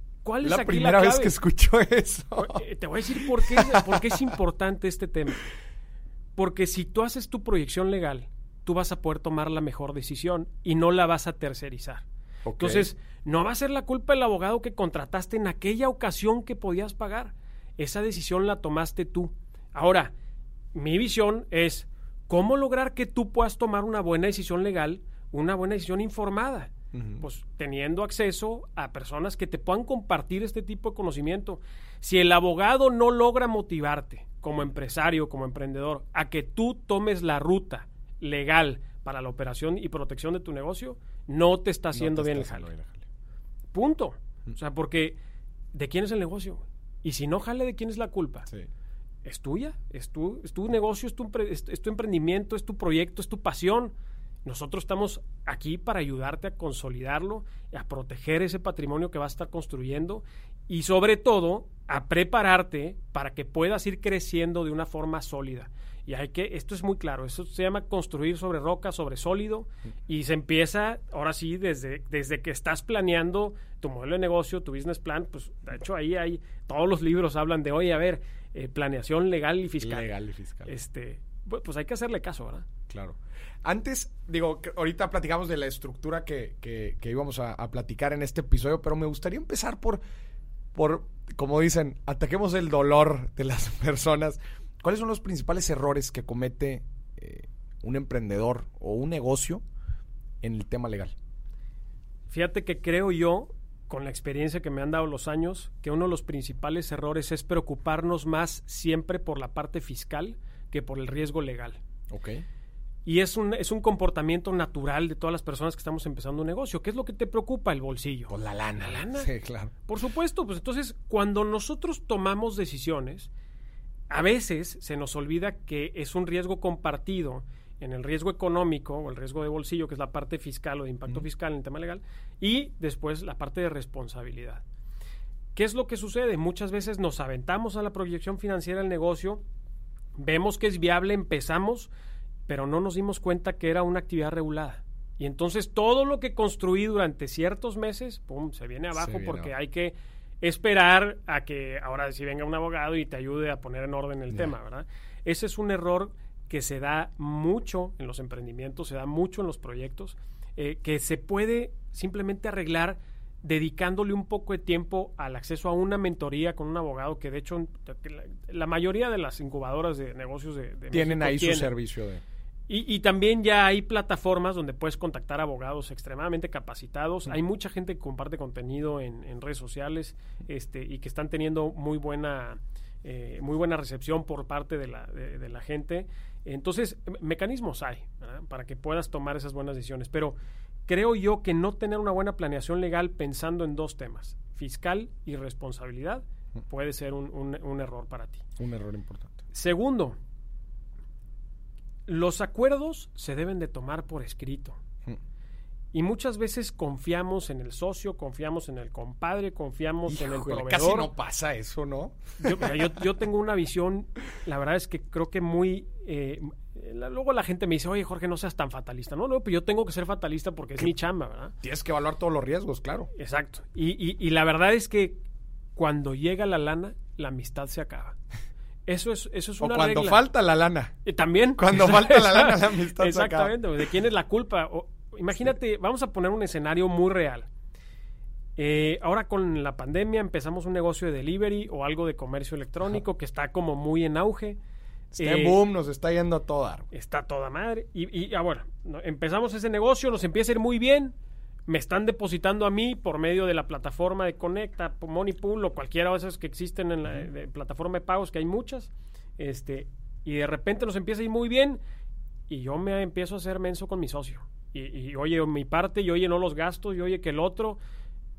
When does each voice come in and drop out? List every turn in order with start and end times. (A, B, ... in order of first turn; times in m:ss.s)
0:00.2-0:01.4 A
0:00.4-0:02.6 B
0:02.4-0:05.4 A
0:03.1-0:04.3 B
0:06.4-0:12.0 A
0:12.4-0:12.9 B
0:12.6-0:20.1 A
0:20.7-0:42.7 A
0:26.9-0:27.2 B
0:41.9-0:43.0 B
0:43.7-0:45.2 A
0:45.7-0:48.5 A
0:49.2-0:53.9 A
0:54.4-1:20.1 A
1:19.8-1:20.8 B
1:20.7-1:22.6 A
1:22.9-1:30.0 B
1:30.7-1:39.6 B
1:40.4-1:41.1 B
1:42.3-1:51.8 A
1:52.1-1:52.4 B
1:53.0-1:59.3 A
1:58.3-1:59.7 B
1:59.8-2:03.3 A
2:04.1-2:14.6 A
2:15.5-2:19.4 A
2:20.2-2:21.9 A
2:22.5-2:51.7 A
2:29.0-2:29.5 B
2:50.9-2:52.2 B
2:52.7-3:10.4 A
3:10.9-3:18.4 A
3:18.6-3:19.4 B
3:19.5-3:20.2 A
3:22.1-3:24.8 A
3:25.9-3:31.1 A
3:30.1-3:32.9 B
3:32.4-3:41.5 A
3:41.6-3:43.1 B
3:43.2-3:45.2 A
3:45.8-3:48.2 A
3:48.9-3:50.2 A
3:49.6-3:50.9 B
3:51.0-3:57.5 A
3:51.6-3:53.5 B
3:58.6-4:04.6 A
4:05.1-4:06.9 B
4:05.2-4:05.6 A
4:06.9-4:11.1 A
4:11.7-4:21.8 A
4:22.5-4:27.8 A